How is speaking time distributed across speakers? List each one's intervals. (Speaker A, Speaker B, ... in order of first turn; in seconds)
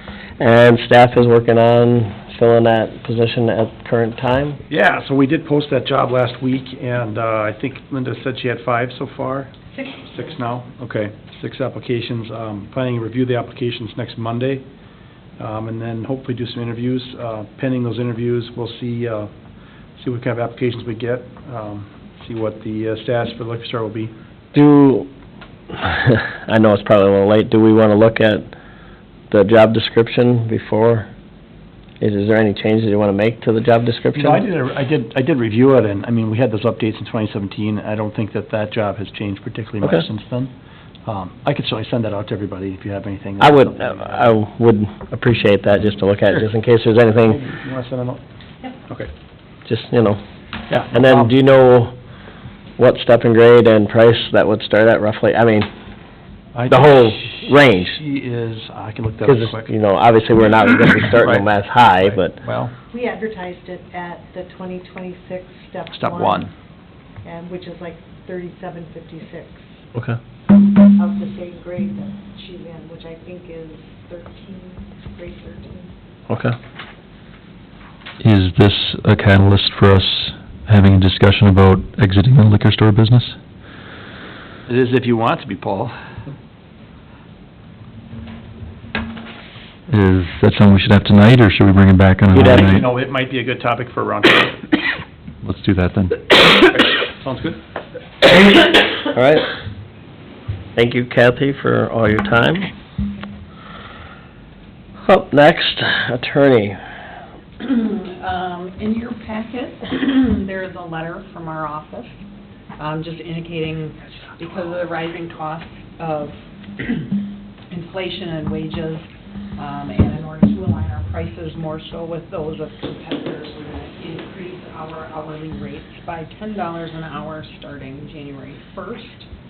Speaker A: 0.4-4.6, 24.5-25.1, 25.7-28.5, 29.3-31.1, 32.0-34.5, 43.4-47.4, 49.7-50.2, 50.9-52.0, 52.8-55.7, 56.7-58.0, 59.2-62.4, 76.3-76.6, 92.3-92.8, 99.1-99.5, 100.8-102.7, 105.0-106.8
Speaker B: 4.7-14.7, 15.4-19.3, 20.0-24.1, 34.1-40.5, 41.0-44.3, 47.3-48.2, 50.7-51.3, 56.5-59.7, 61.1-62.7, 65.9-66.5, 84.7-86.3, 92.4-94.6, 96.5-97.6
Speaker C: 62.9-66.5, 67.2-69.7, 70.9-75.9
Speaker D: 78.2-83.4, 89.9-92.9, 95.4-96.2
Speaker E: 107.6-112.1, 112.8-129.3